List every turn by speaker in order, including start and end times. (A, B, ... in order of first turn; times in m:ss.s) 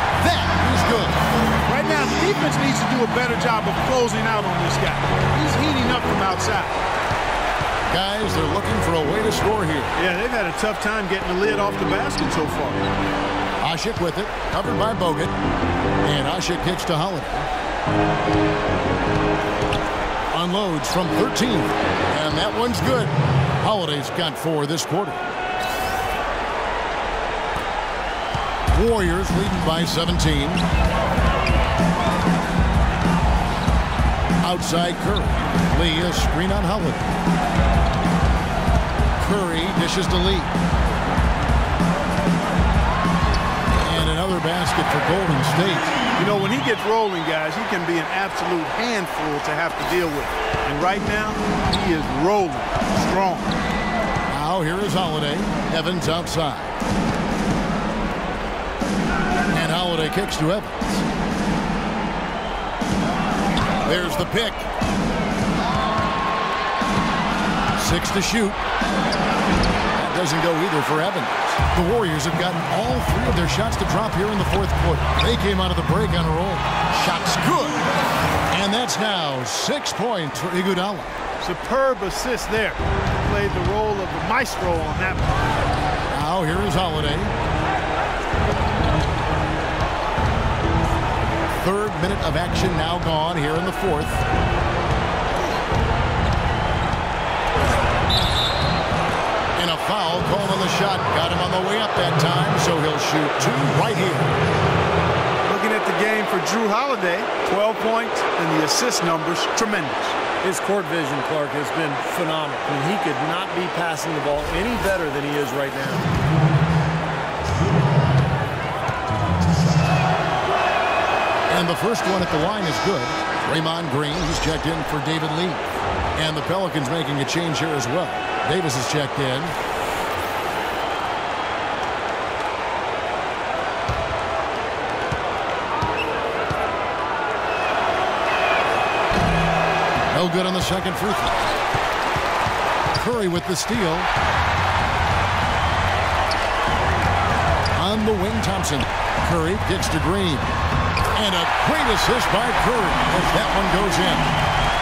0:00.2-0:01.2 A
0:01.7-0:06.8 B
0:07.9-0:09.9 A
0:10.0-0:12.8 B
0:13.6-0:15.4 A
0:16.0-0:17.5 A
0:20.3-0:25.2 A
0:28.7-0:30.6 A
0:34.4-0:37.1 A
0:39.2-0:40.5 A
0:43.8-0:46.0 A
0:46.2-0:53.5 B
0:54.3-0:56.8 A
0:59.5-1:01.0 A
1:03.8-1:04.6 A
1:07.7-1:08.6 A
1:09.9-1:17.8 A
1:18.5-1:21.1 A
1:21.4-1:25.3 B
1:26.1-1:27.3 A
1:31.6-1:34.2 A
1:39.6-1:44.3 A
1:45.4-1:50.2 B
1:50.4-1:56.1 C
2:01.5-2:05.6 A
2:06.2-2:09.5 A
2:20.1-2:21.5 A
2:22.9-2:24.1 A
2:27.7-2:30.6 A
2:31.1-2:34.3 A